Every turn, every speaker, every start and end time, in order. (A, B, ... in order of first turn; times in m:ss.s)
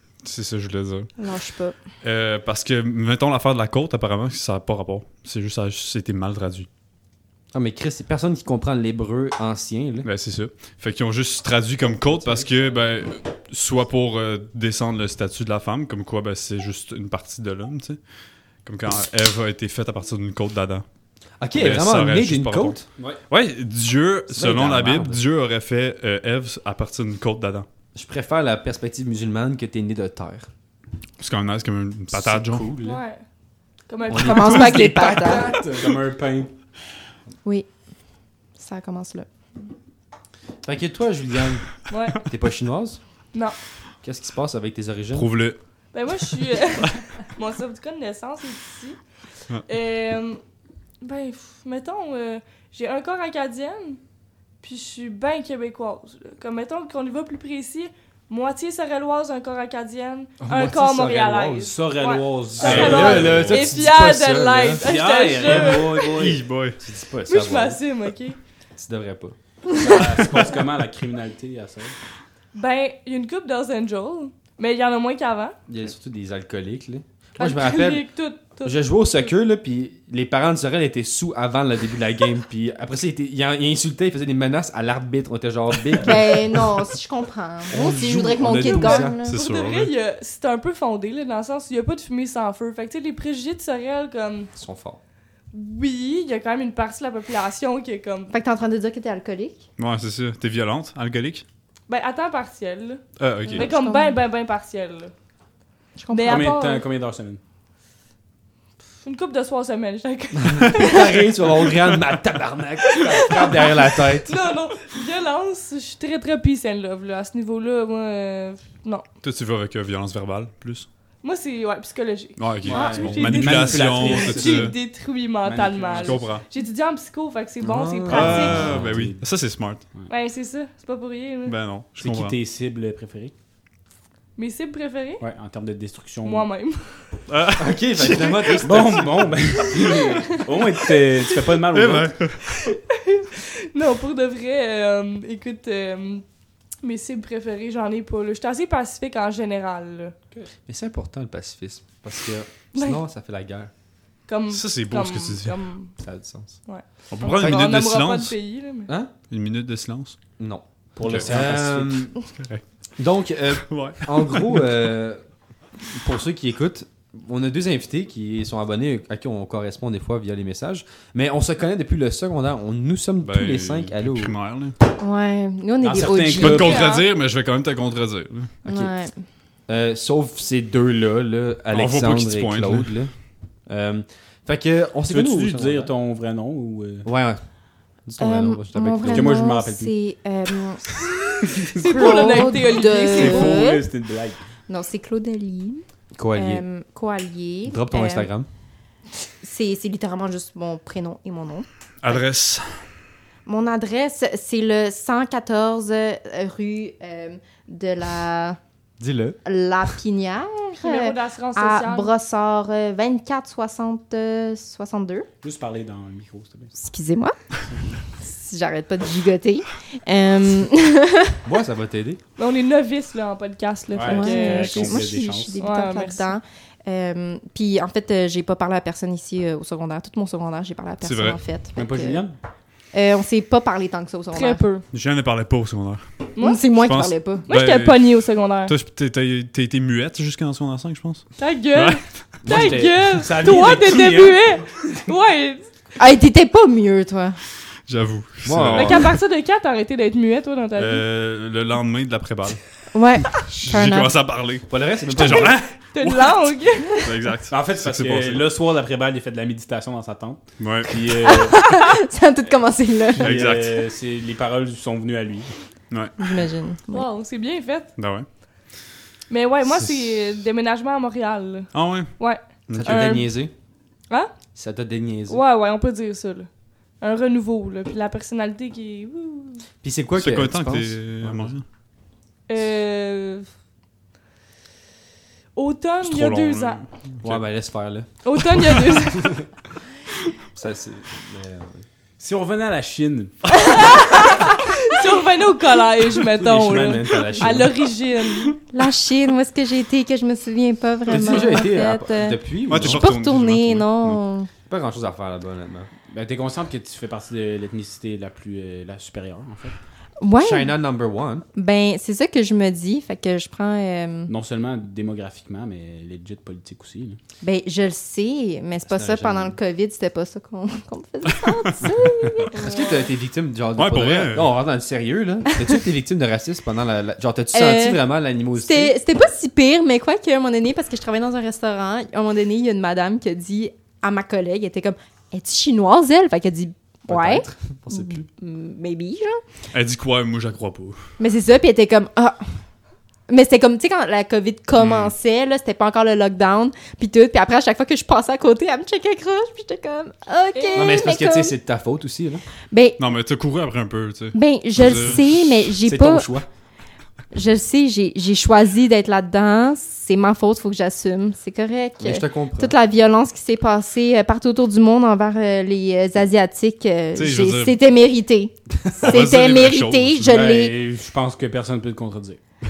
0:00.2-0:01.1 A
0:01.2-0:01.8 B
0:02.0-0:06.7 A
0:07.5-0:10.1 C
0:10.0-0:10.6 D
0:10.6-0:18.0 A
0:11.8-0:12.8 C
0:18.6-0:20.8 A
0:21.4-0:22.8 C
0:21.6-0:27.7 A
0:24.3-0:25.2 C
0:28.0-0:30.5 C
0:31.2-0:32.7 A
0:32.1-0:33.0 C
0:32.8-0:33.2 E
0:33.9-0:35.6 E
0:34.1-0:34.9 C
0:34.1-0:35.6 B
0:34.7-0:36.5 D
0:38.6-0:39.3 B
0:40.6-0:41.6 C
0:41.9-0:42.2 E
0:42.2-0:43.0 C
0:44.0-0:45.3 C
0:45.1-0:45.6 A
0:45.9-0:49.0 E
0:49.7-0:50.4 E
0:51.0-0:54.0 E
0:54.6-1:06.1 E
1:00.4-1:01.7 C
1:01.7-1:03.5 D
1:02.6-1:04.8 C
1:02.6-1:03.9 A
1:04.8-1:06.4 D
1:05.4-1:05.9 C
1:05.7-1:06.8 A
1:06.8-1:07.8 C
1:07.3-1:08.4 E
1:08.8-1:09.3 C
1:09.8-1:11.9 D
1:12.6-1:15.6 E
1:15.7-1:18.1 C
1:17.4-1:19.3 E
1:18.6-1:26.8 C
1:26.0-1:29.3 B
1:27.7-1:29.2 C
1:28.4-1:29.9 A
1:28.6-1:34.5 E
1:34.6-1:35.0 C
1:35.5-1:38.3 E
1:38.3-1:39.6 B
1:39.8-1:41.4 A
1:41.9-1:45.1 E
1:43.2-1:43.7 A
1:43.5-1:44.2 B
1:46.0-1:46.5 B
1:46.1-1:46.8 E
1:46.3-1:47.4 D
1:49.0-1:51.0 E
1:50.4-1:54.4 C
1:52.9-1:53.7 E
1:54.2-1:59.0 E
1:59.2-2:00.9 A
2:01.2-2:08.7 E
2:02.4-2:04.7 A
2:02.7-2:04.8 D
2:05.4-2:06.3 D
2:06.0-2:06.4 A
2:07.6-2:09.0 C
2:08.1-2:09.8 A
2:08.5-2:09.2 D
2:10.1-2:11.6 E
2:11.4-2:12.4 A
2:12.0-2:13.3 D
2:14.4-2:15.2 E
2:15.2-2:16.5 D
2:16.2-2:17.0 E
2:17.3-2:18.8 A
2:17.6-2:19.7 C
2:18.6-2:22.1 D
2:21.7-2:22.6 A
2:22.6-2:26.2 E
2:26.8-2:30.1 E
2:30.7-2:33.7 C
2:34.3-2:35.9 E
2:34.5-2:35.6 A
2:36.0-2:36.6 C
2:36.7-2:38.9 E
2:37.1-2:38.3 A
2:37.4-2:37.7 C
2:39.3-2:40.2 A
2:40.4-2:42.2 C
2:41.0-2:42.1 D
2:42.3-2:42.6 A
2:43.0-2:45.2 C
2:43.7-2:44.7 A
2:45.9-2:54.3 C
2:53.2-2:54.8 A
2:55.0-2:56.8 B
2:55.8-2:56.8 D
2:56.4-2:58.6 A
2:56.5-2:57.1 E
2:58.7-2:59.1 B
2:59.7-3:03.1 C
3:01.7-3:03.0 A
3:03.7-3:05.9 C
3:05.1-3:07.1 D
3:07.0-3:07.4 C
3:08.0-3:09.3 C
3:08.2-3:11.1 B
3:09.0-3:09.9 D
3:11.4-3:14.4 D
3:11.8-3:13.6 E
3:11.8-3:13.9 B
3:14.7-3:18.3 B
3:16.2-3:16.6 C
3:17.7-3:18.5 C
3:19.4-3:22.2 B
3:22.0-3:22.8 A
3:23.4-3:28.6 B
3:29.0-3:29.4 C
3:29.4-3:35.3 B
3:30.8-3:32.1 E
3:35.4-3:36.7 D
3:36.8-3:37.3 B
3:38.2-3:41.4 B
3:41.4-3:42.2 C
3:42.4-3:45.0 E
3:43.9-3:45.6 D
3:44.1-3:52.2 B
3:45.6-3:46.3 E
3:51.0-3:51.4 A
3:51.8-3:52.4 D
3:52.9-3:54.6 B
3:54.3-3:54.8 E
3:54.9-3:56.1 A
3:56.4-3:57.4 B
3:56.8-4:02.0 A
3:57.5-3:58.7 E
4:01.4-4:05.7 E
4:02.4-4:05.0 D
4:06.0-4:07.4 B
4:07.9-4:09.2 A
4:08.4-4:09.1 C
4:08.7-4:11.0 E
4:10.8-4:12.6 A
4:12.9-4:14.2 B
4:13.4-4:16.3 A
4:14.7-4:15.6 C
4:15.3-4:15.6 D
4:15.9-4:17.1 E
4:17.0-4:18.5 A
4:17.5-4:21.6 D
4:20.6-4:21.1 A
4:21.3-4:23.3 B
4:23.1-4:25.5 D
4:23.2-4:23.9 A
4:25.9-4:26.3 A
4:26.2-4:27.1 B
4:26.9-4:27.9 E
4:28.0-4:28.3 A
4:29.3-4:33.3 E
4:31.7-4:32.1 A
4:32.7-4:33.1 A
4:32.7-4:33.5 C
4:34.6-4:35.4 C
4:35.3-4:39.6 E
4:39.8-4:41.6 C
4:40.2-4:41.6 A
4:42.5-4:43.5 E
4:45.6-4:46.8 E
4:46.0-4:47.4 A
4:47.2-4:48.1 C
4:48.2-4:49.4 E
4:50.6-4:51.8 C
4:52.2-4:53.3 D
4:53.7-4:58.6 E
4:56.3-4:57.8 C
4:58.7-5:04.5 B
5:01.1-5:03.1 C
5:02.7-5:04.2 A
5:04.7-5:05.9 C
5:06.1-5:09.7 D
5:10.2-5:10.8 B
5:10.4-5:11.4 C
5:11.6-5:14.3 B
5:14.3-5:17.2 D
5:17.4-5:23.0 B
5:18.9-5:19.5 C
5:22.6-5:28.9 C
5:23.8-5:24.5 A
5:27.5-5:28.0 B
5:28.5-5:39.4 B
5:37.1-5:38.2 C
5:39.7-5:41.0 A
5:41.2-5:42.4 B
5:43.3-5:51.6 B
5:44.8-5:45.1 C
5:50.5-5:51.0 E
5:50.8-5:52.4 C
5:52.7-5:53.0 B
5:53.0-5:55.2 A
5:54.3-5:56.3 B
5:55.8-5:56.4 C
5:57.3-6:10.8 B
6:02.0-6:02.8 C
6:07.2-6:07.8 A
6:09.0-6:10.3 A
6:10.3-6:12.4 D